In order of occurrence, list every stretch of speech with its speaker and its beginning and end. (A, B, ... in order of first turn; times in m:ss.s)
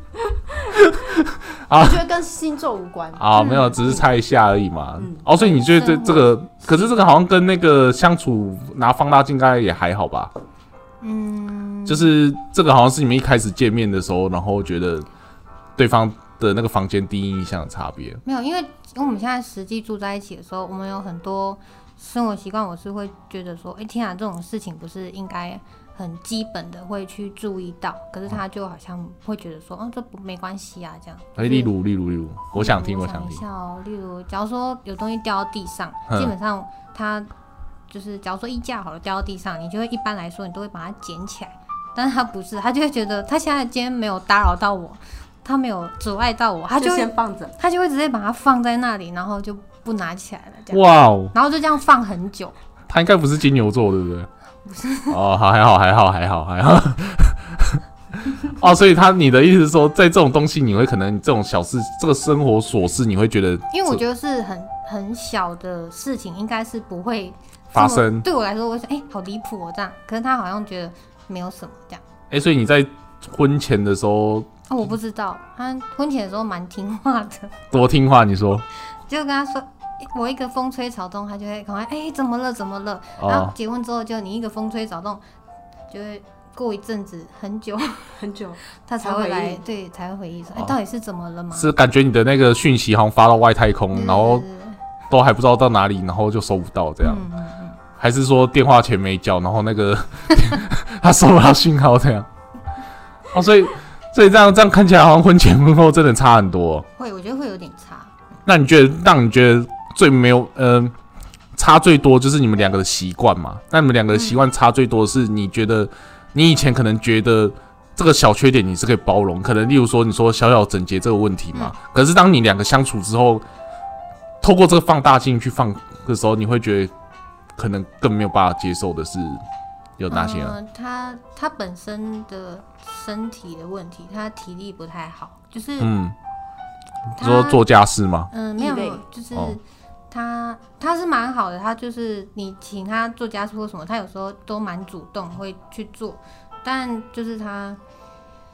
0:00.3-0:00.8 A
0:00.7-0:02.0 B
0:01.7-0:04.1 A
0:03.2-0:10.3 B
0:03.3-0:03.8 C
0:05.0-0:05.3 A
0:05.3-0:06.9 C
0:11.0-0:12.1 C
0:11.9-0:15.1 B
0:15.8-0:18.2 B
0:18.2-0:31.7 C
0:31.4-0:33.4 B
0:32.5-0:37.3 C
0:36.1-0:36.3 B
0:37.9-0:52.6 C
0:46.8-0:47.6 A
0:50.7-0:51.3 B
0:52.9-0:54.3 B
0:54.6-0:55.2 C
0:55.1-0:57.8 B
0:58.4-1:04.0 B
1:03.7-1:12.0 C
1:07.7-1:08.3 B
1:12.3-1:14.5 B
1:14.7-1:17.5 C
1:17.7-1:18.7 B
1:19.1-1:25.2 C
1:23.2-1:23.5 B
1:25.9-1:28.1 C
1:28.2-1:29.6 A
1:28.8-1:31.7 C
1:31.5-1:34.4 B
1:33.9-1:34.8 C
1:35.1-1:37.3 B
1:37.0-1:37.8 C
1:38.0-1:42.3 B
1:43.3-1:46.8 B
1:47.0-1:48.1 C
1:48.5-1:50.9 B
1:51.6-2:03.4 B
1:54.1-1:54.4 C
2:04.4-2:06.9 B
2:07.6-2:09.4 B
2:10.0-2:10.6 B
2:10.1-2:15.9 C
2:15.8-2:16.2 B
2:17.2-2:18.3 B
2:17.2-2:17.6 C
2:18.3-2:27.8 C
2:18.6-2:19.0 A